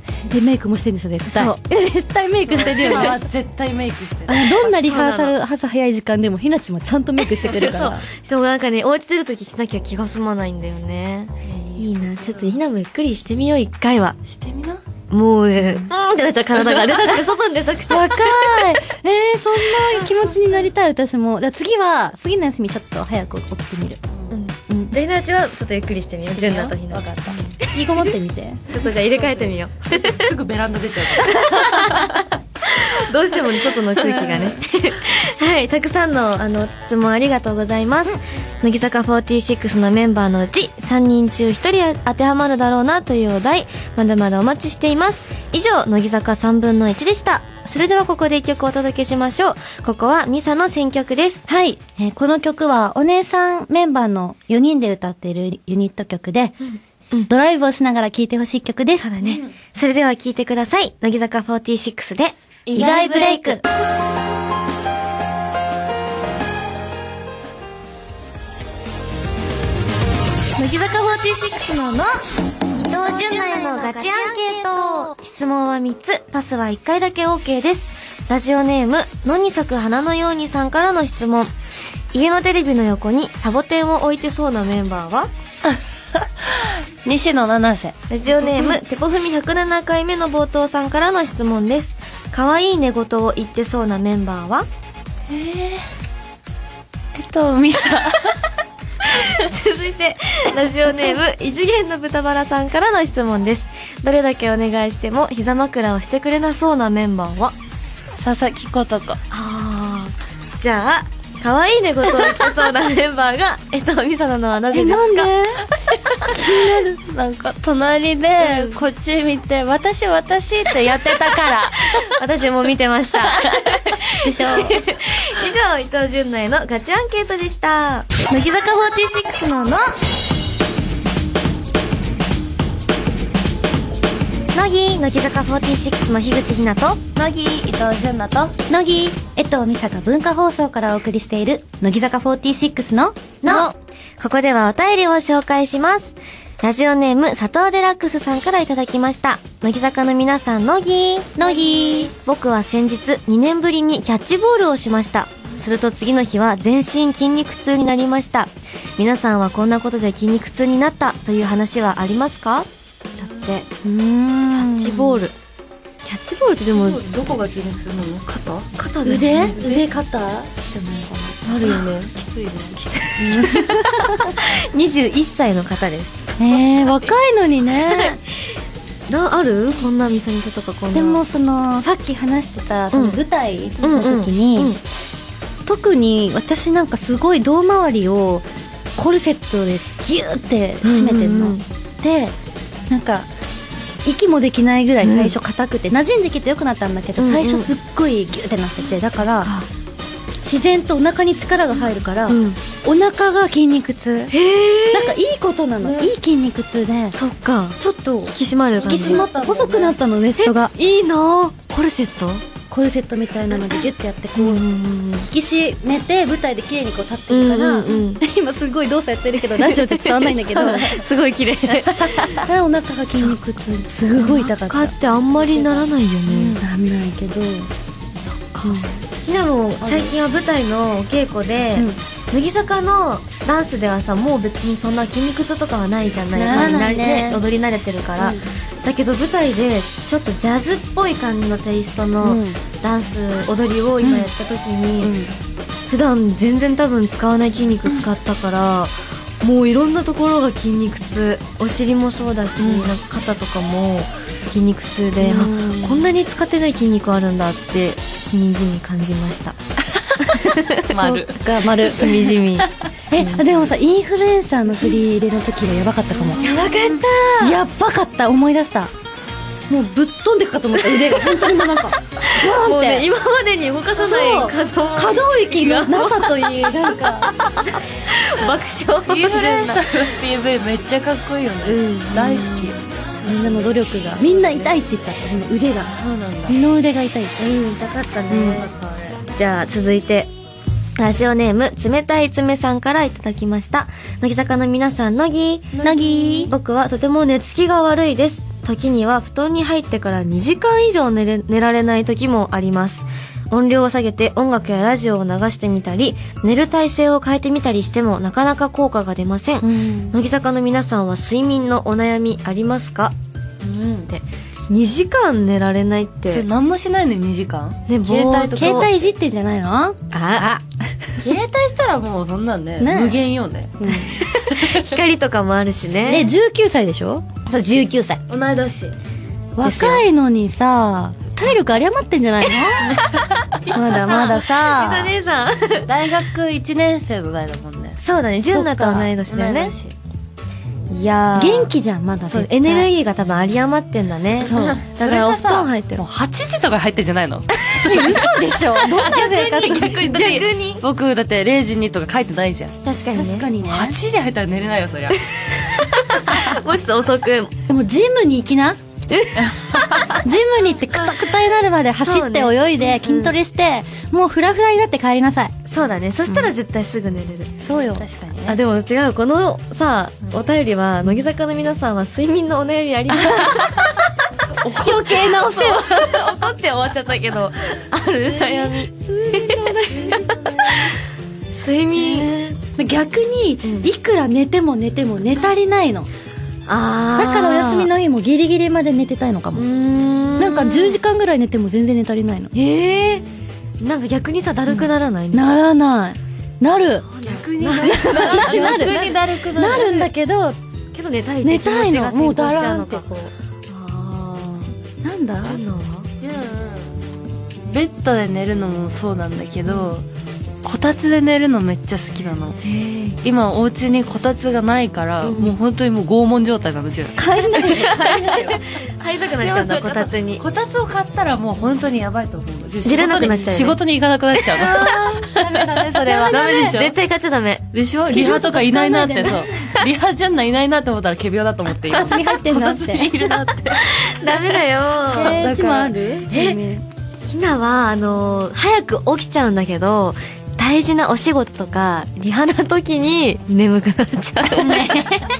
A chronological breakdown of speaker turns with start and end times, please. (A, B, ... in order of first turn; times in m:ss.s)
0:00.3-0:03.2 A
0:01.3-0:01.6 B
0:02.5-0:04.7 C
0:02.6-0:03.2 B
0:04.3-0:08.1 A
0:04.6-0:05.4 B
0:07.2-0:14.2 B
0:11.4-0:12.6 C
0:14.2-0:14.8 C
0:15.1-0:18.7 B
0:16.6-0:17.1 C
0:17.9-0:24.0 A
0:19.8-0:20.0 B
0:24.3-0:27.1 B
0:24.7-0:25.0 A
0:26.2-0:27.5 C
0:27.3-0:28.6 A
0:27.8-0:28.1 B
0:28.7-0:30.3 B
0:28.8-0:32.2 C
0:31.2-0:51.4 B
0:34.2-0:34.4 C
0:51.5-0:56.6 A
0:56.7-0:57.3 B
0:57.3-0:59.1 A
0:59.0-1:03.6 B
0:59.2-0:59.5 C
1:02.7-1:03.6 A
1:10.6-1:12.1 B
1:12.8-1:21.5 B
1:22.1-1:25.3 B
1:25.6-1:28.8 C
1:28.1-1:34.7 B
1:35.3-1:35.8 C
1:37.1-1:38.4 C
1:39.0-1:47.5 B
1:48.2-1:49.2 C
1:49.3-1:55.4 B
1:54.7-1:55.7 A
1:56.2-1:57.0 A
1:57.0-2:02.2 C
1:58.4-1:58.8 B
2:01.9-2:09.9 B
2:03.2-2:03.8 C
2:04.2-2:04.8 A
2:14.5-2:17.0 B
2:17.1-2:18.5 C
2:18.7-2:23.7 A
2:23.4-2:31.4 B
2:31.4-2:32.1 A
2:32.1-2:43.6 B
2:43.8-2:45.2 A
2:44.5-2:45.4 B
2:46.0-2:47.4 B
2:46.7-2:48.7 C
2:48.8-2:49.6 B
2:49.0-2:51.6 A
2:49.5-2:50.1 C
2:51.4-2:52.1 B
2:51.6-2:52.8 C
2:52.8-2:56.2 B
2:53.2-2:54.4 A
2:56.4-2:58.2 A
2:57.8-2:58.5 B
2:59.1-3:01.2 B
3:00.9-3:04.8 A
3:02.9-3:03.2 B
3:03.8-3:04.8 B
3:05.6-3:12.4 A
3:10.8-3:11.6 B
3:12.9-3:13.3 A
3:14.0-3:19.5 A
3:15.0-3:15.4 B
3:17.2-3:17.7 B
3:19.4-3:19.7 B
3:20.4-3:24.3 A
3:22.3-3:22.6 B
3:24.3-3:25.2 B
3:24.9-3:27.2 A
3:27.1-3:29.2 B
3:27.8-3:30.7 A
3:28.8-3:30.0 C
3:30.4-3:32.4 B
3:32.7-3:34.6 A
3:34.4-3:35.3 B
3:35.2-3:41.0 A
3:37.3-3:38.2 B
3:39.5-3:42.5 B
3:41.9-3:45.0 A
3:43.1-3:46.6 B
3:46.3-3:46.6 C
3:46.6-3:47.7 A
3:48.2-4:05.1 B
3:48.6-3:48.9 A
3:56.3-3:57.4 A
3:58.2-3:58.5 A
4:02.2-4:02.6 A
4:04.0-4:04.3 A
4:05.0-4:05.3 C
4:05.9-4:19.6 B
4:12.6-4:12.9 A
4:15.2-4:16.1 A
4:20.2-4:21.2 B
4:20.9-4:21.4 C
4:21.0-4:22.2 A
4:21.8-4:23.7 B
4:22.0-4:22.7 C
4:23.1-4:26.5 A
4:26.3-4:27.0 C
4:26.4-4:27.6 B
4:27.4-4:28.9 A
4:29.7-4:33.1 A
4:30.7-4:40.1 B
4:34.0-4:37.3 A
4:39.0-4:43.8 C
4:41.6-4:42.8 B
4:43.2-4:45.9 A
4:44.4-4:44.6 B
4:45.8-4:46.6 C
4:46.5-4:47.6 A
4:47.4-4:50.3 B
4:48.3-4:48.7 A
4:48.5-4:49.2 C
4:51.0-4:55.8 B
4:55.7-4:56.5 C
4:55.8-4:56.5 A
4:56.4-5:13.1 B
5:09.6-5:10.2 A
5:13.6-5:14.1 C
5:14.1-5:16.5 B
5:16.3-5:19.0 C
5:17.9-5:18.9 B
5:18.5-5:20.6 A
5:20.1-5:20.5 B
5:21.2-5:23.8 C
5:22.8-5:23.2 A
5:23.8-5:24.2 A
5:24.2-5:26.3 B
5:24.4-5:24.9 C
5:26.0-5:28.2 A
5:28.3-5:29.0 C
5:29.6-5:33.0 A
5:29.6-5:30.0 B
5:33.6-5:36.0 B
5:33.7-5:35.1 A
5:35.8-5:38.0 C
5:38.0-5:39.8 B
5:38.5-5:39.1 A
5:39.2-5:40.0 C
5:40.9-5:41.7 B
5:41.4-5:42.9 A
5:42.3-5:46.0 B
5:44.4-5:48.3 C
5:44.4-5:44.8 A
5:47.7-5:50.1 A
5:49.0-5:50.8 B
5:49.2-5:52.7 C
5:52.8-5:54.0 A
5:53.1-5:53.5 B
5:53.6-5:55.2 C
5:55.1-5:57.5 B
5:57.7-5:58.8 A
5:59.1-6:00.2 B
5:59.4-6:00.2 C
6:00.2-6:05.5 A
6:02.0-6:03.4 B
6:05.6-6:07.5 B
6:07.6-6:08.0 A
6:08.0-6:08.6 C
6:08.5-6:14.1 B
6:13.2-6:13.6 A
6:14.6-6:15.9 A
6:14.8-6:21.0 B
6:18.3-6:20.4 A
6:20.0-6:20.5 C
6:21.5-6:22.6 B
6:22.0-6:22.2 A
6:22.8-6:26.1 A
6:23.6-6:23.9 B
6:26.7-6:27.9 B
6:27.1-6:29.7 A
6:29.5-6:31.0 B
6:30.4-6:32.5 A
6:32.5-6:33.2 B
6:33.8-6:35.6 B
6:34.7-6:37.1 A
6:37.0-6:40.1 B
6:37.2-6:40.0 C
6:37.8-6:40.6 A
6:40.9-6:43.1 B
6:41.4-6:43.3 A
6:43.7-6:44.7 B
6:45.0-6:45.6 A
6:45.4-6:46.1 B
6:46.2-6:46.9 C
6:47.6-6:50.0 C
6:50.6-6:52.6 C
6:52.6-6:53.2 B
6:53.2-6:58.6 C
6:55.2-6:55.5 B
6:57.2-6:58.6 A
6:57.5-7:00.4 B
6:59.4-7:07.0 C
7:02.8-7:03.8 B
7:04.5-7:04.9 B
7:04.6-7:06.8 A
7:06.2-7:07.7 B
7:07.7-7:14.4 C
7:08.1-7:09.8 A
7:11.9-7:13.1 A
7:13.8-7:16.6 B
7:15.0-7:16.8 A
7:15.2-7:15.7 C
7:17.3-7:25.0 B
7:24.6-7:25.3 A